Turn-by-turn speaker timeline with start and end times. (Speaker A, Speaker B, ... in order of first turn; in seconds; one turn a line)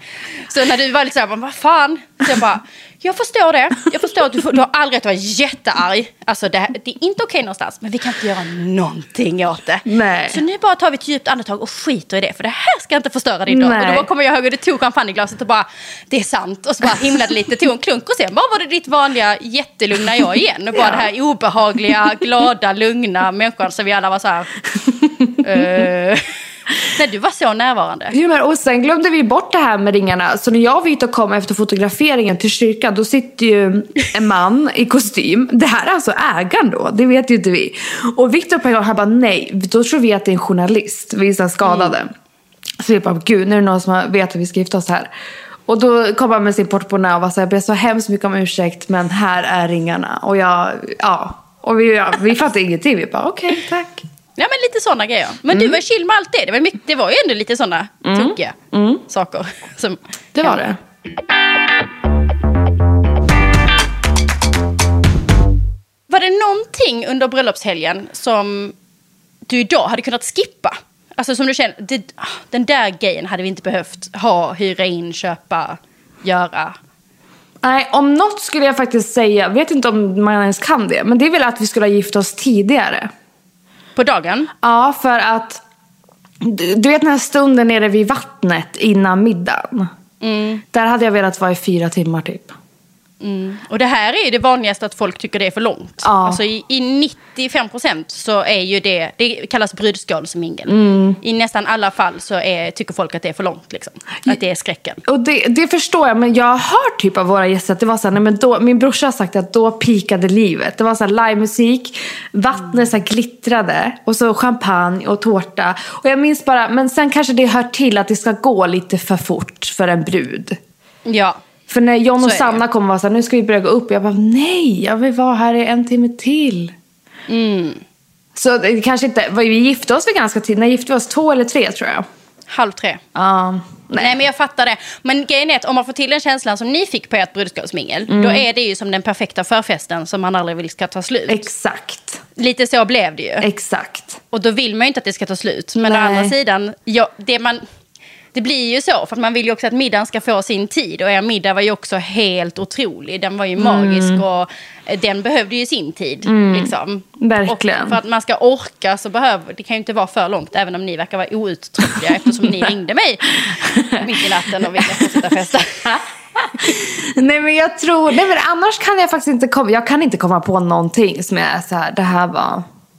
Speaker A: 0.4-24.5
Speaker B: 9.9-10.4
Speaker B: 13.5-14.1
Speaker B: 20.8-21.1
Speaker A: 25.4-26.3
Speaker A: 26.8-28.1
Speaker B: 28.1-42.1
Speaker A: 41.6-42.0
Speaker B: 42.8-45.1
Speaker B: 45.7-54.1
Speaker A: 54.4-58.6
Speaker B: 55.5-55.8
Speaker B: 58.0-59.0
Speaker A: 59.1-60.7
Speaker B: 60.4-60.8
Speaker A: 66.1-68.8
Speaker A: 69.5-76.8
Speaker B: 77.6-83.1
Speaker A: 84.0-84.5
Speaker B: 84.6-85.6
Speaker B: 86.4-89.9
Speaker A: 90.2-90.6
Speaker B: 90.7-92.6
Speaker A: 93.2-105.0
Speaker B: 96.0-96.4
Speaker B: 100.7-101.2
Speaker B: 105.0-120.6
Speaker A: 121.1-121.4
Speaker B: 121.7-126.7
Speaker A: 122.2-122.6
Speaker A: 127.3-127.8
Speaker B: 128.3-132.1
Speaker A: 132.5-133.0
Speaker B: 133.2-134.2
Speaker A: 134.0-141.5
Speaker B: 138.1-138.5
Speaker B: 141.3-142.2
Speaker A: 142.4-143.5
Speaker B: 143.4-144.2
Speaker A: 144.3-147.6
Speaker B: 145.8-146.3
Speaker A: 148.3-166.0
Speaker B: 153.6-154.2
Speaker B: 156.3-158.0
Speaker B: 163.5-164.2
Speaker B: 164.8-165.2
Speaker B: 165.9-172.7